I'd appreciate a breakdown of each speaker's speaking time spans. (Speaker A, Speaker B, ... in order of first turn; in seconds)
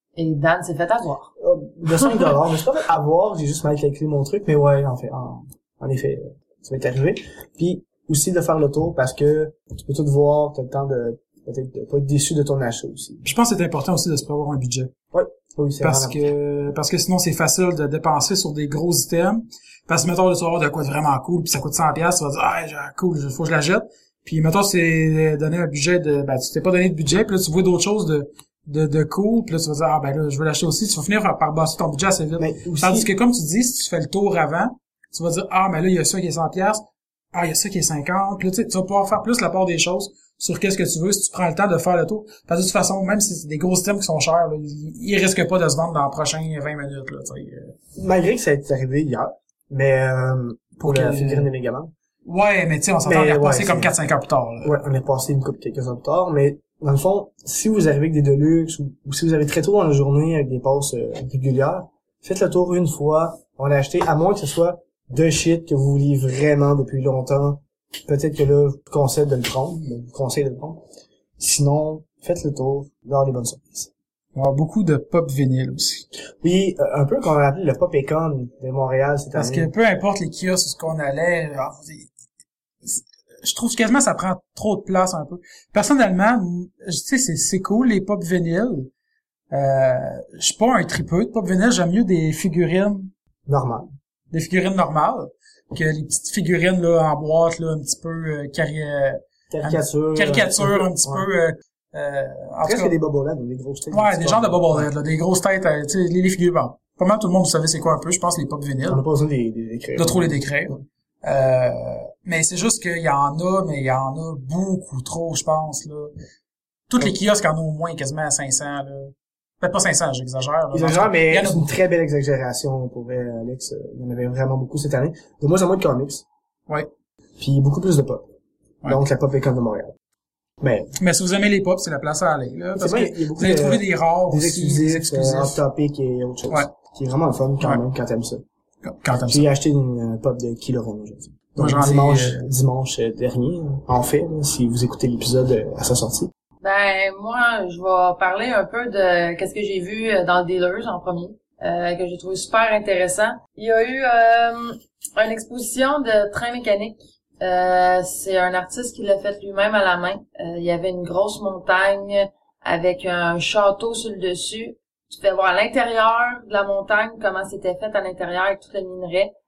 Speaker A: 0.2-1.3, 146.6-169.3
Speaker B: 1.4-13.2, 15.1-16.2, 32.4-33.1, 48.0-51.9, 53.0-53.9, 54.6-70.8, 71.4-73.9, 76.4-79.7, 93.5-93.9, 99.5-101.3, 102.6-104.9, 108.9-110.4, 120.7-126.3, 127.4-128.3, 128.8-129.9, 130.6-130.9, 132.8-138.4, 139.2-146.3
Speaker C: 13.2-14.9, 15.8-47.8, 50.8-51.5, 52.3-54.8, 74.3-76.0, 79.3-82.1, 82.8-88.9, 89.5-93.1, 94.3-102.9, 103.9-109.0, 110.0-116.1, 116.9-121.7, 131.0-135.6, 138.8-139.5, 141.6-142.4